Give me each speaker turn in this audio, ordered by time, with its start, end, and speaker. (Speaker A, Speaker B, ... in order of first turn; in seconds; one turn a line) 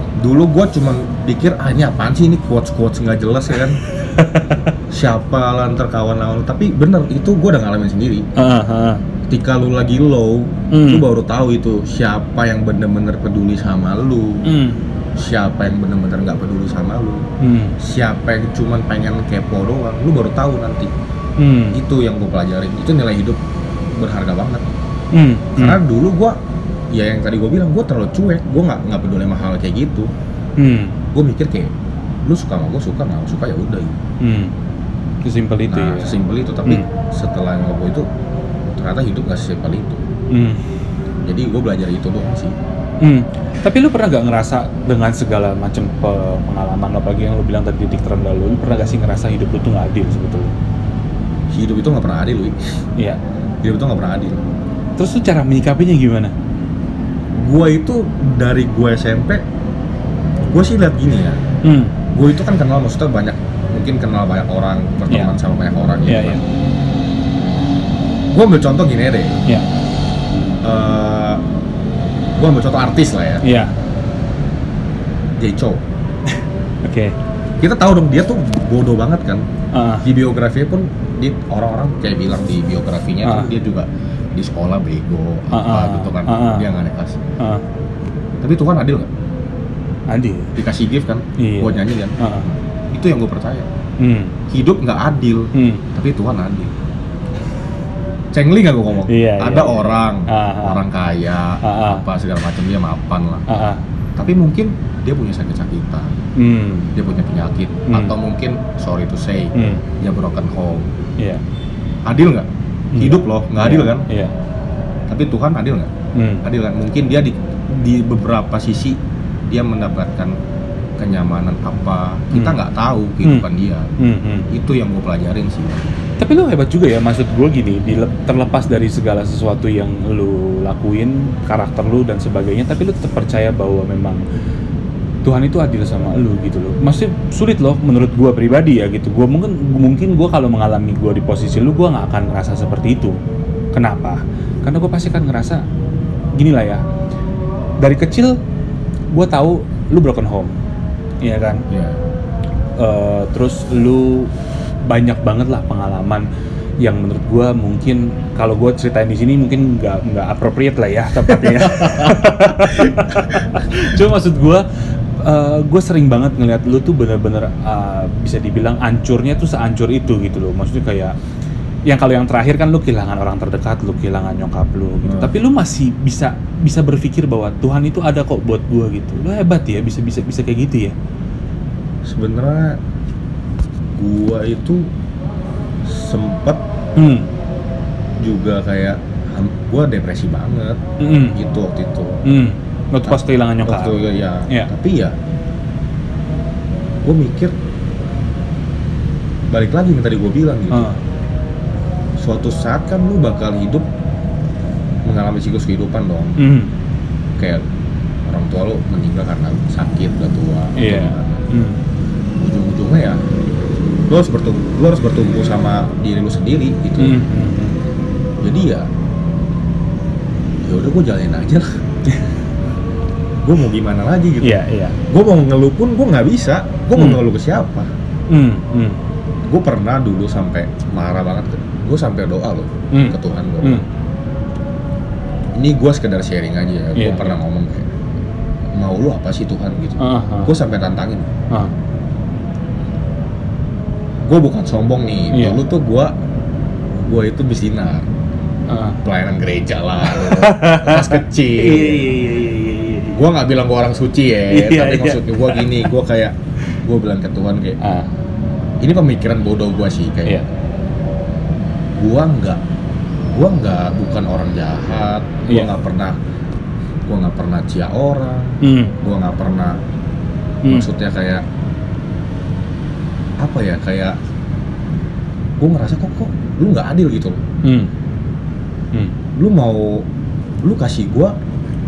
Speaker A: 0.2-3.8
Speaker B: 4.0-4.7
Speaker A: 4.9-8.3
Speaker B: 8.3-9.0
Speaker A: 9.2-14.5
Speaker B: 10.7-11.1
Speaker B: 14.4-14.8
Speaker A: 15.1-17.2
Speaker B: 17.4-17.8
Speaker A: 17.8-20.9
Speaker B: 21.4-21.8
Speaker A: 21.7-24.7
Speaker B: 25.1-25.8
Speaker A: 25.6-26.4
Speaker A: 26.9-30.1
Speaker B: 30.6-31.0
Speaker A: 31.1-31.7
Speaker A: 32.2-34.0
Speaker B: 34.2-34.5
Speaker B: 35.2-36.9
Speaker A: 35.7-38.1
Speaker A: 38.7-40.0
Speaker B: 40.3-40.6
Speaker A: 41.2-42.5
Speaker B: 43.0-50.5
Speaker A: 51.5-52.8
Speaker A: 53.6-54.5
Speaker B: 55.0-56.3
Speaker A: 57.4-59.4
Speaker A: 60.5-61.4
Speaker B: 61.6-61.9
Speaker A: 62.1-66.4
Speaker B: 66.0-66.4
Speaker A: 68.3-69.4
Speaker A: 70.6-71.4
Speaker A: 72.3-73.4
Speaker B: 73.4-73.7
Speaker A: 75.4-75.8
Speaker B: 76.8-77.1
Speaker A: 77.6-79.5
Speaker B: 79.7-80.0
Speaker A: 80.0-87.2
Speaker B: 83.2-83.5
Speaker B: 85.5-86.7
Speaker A: 88.4-89.1
Speaker B: 90.1-90.5
Speaker A: 90.5-93.7
Speaker B: 91.4-92.5
Speaker B: 94.0-94.3
Speaker A: 94.5-96.8
Speaker B: 95.5-95.8
Speaker A: 98.3-103.4
Speaker B: 99.1-100.8
Speaker B: 101.6-102.0
Speaker B: 103.5-103.8
Speaker A: 104.2-106.2
Speaker B: 106.3-106.9
Speaker A: 106.9-110.9
Speaker B: 107.9-108.1
Speaker B: 109.5-109.8
Speaker A: 112.0-114.1
Speaker B: 112.9-114.3
Speaker A: 115.1-115.9
Speaker B: 116.1-116.4
Speaker A: 116.4-120.3
Speaker A: 121.0-123.9
Speaker B: 122.3-122.6
Speaker B: 123.2-124.5
Speaker A: 124.5-126.0
Speaker B: 126.2-134.2
Speaker B: 135.2-143.2
Speaker B: 143.7-145.6
Speaker B: 146.3-146.8
Speaker B: 147.8-148.4
Speaker B: 149.1-150.5
Speaker B: 151.2-151.6
Speaker A: 151.7-152.0
Speaker B: 152.8-154.3
Speaker B: 154.8-156.2
Speaker B: 156.8-164.7
Speaker A: 161.4-162.9
Speaker B: 165.2-171.1
Speaker B: 171.9-180.9
Speaker A: 175.0-175.3
Speaker A: 182.1-182.8
Speaker A: 183.9-184.9
Speaker A: 185.8-186.6
Speaker B: 186.9-187.3
Speaker A: 188.2-190.8
Speaker B: 191.0-191.4
Speaker A: 191.3-192.2
Speaker B: 192.2-194.7
Speaker A: 193.1-195.2
Speaker A: 197.0-197.5
Speaker A: 199.5-200.9
Speaker B: 200.7-201.0
Speaker A: 202.2-203.9
Speaker A: 205.0-206.4
Speaker B: 206.4-206.7
Speaker A: 207.4-207.6
Speaker A: 208.2-211.4
Speaker B: 210.8-211.8
Speaker A: 212.4-213.2
Speaker A: 214.0-217.2
Speaker B: 217.0-217.8
Speaker A: 218.4-218.9
Speaker A: 220.6-221.7
Speaker A: 223.4-227.9
Speaker B: 224.4-225.0
Speaker B: 226.9-227.2
Speaker B: 228.3-229.0
Speaker A: 229.4-233.8
Speaker B: 232.9-233.8
Speaker A: 235.5-237.9
Speaker B: 236.9-237.4
Speaker A: 238.7-241.3
Speaker B: 240.0-240.5
Speaker A: 244.2-246.1
Speaker B: 245.3-245.6
Speaker A: 247.1-248.1
Speaker B: 248.7-249.0
Speaker A: 249.0-252.1
Speaker B: 250.0-253.2
Speaker A: 253.1-257.8
Speaker B: 254.5-255.9
Speaker B: 257.8-258.1
Speaker A: 258.8-260.4
Speaker A: 262.0-262.6
Speaker A: 263.3-266.1
Speaker B: 265.5-265.7
Speaker A: 267.1-269.8
Speaker B: 268.6-268.9
Speaker B: 270.6-270.9
Speaker A: 270.6-271.4
Speaker A: 273.4-274.1
Speaker A: 275.6-277.4
Speaker B: 277.6-277.9
Speaker A: 279.4-280.1
Speaker A: 280.6-281.3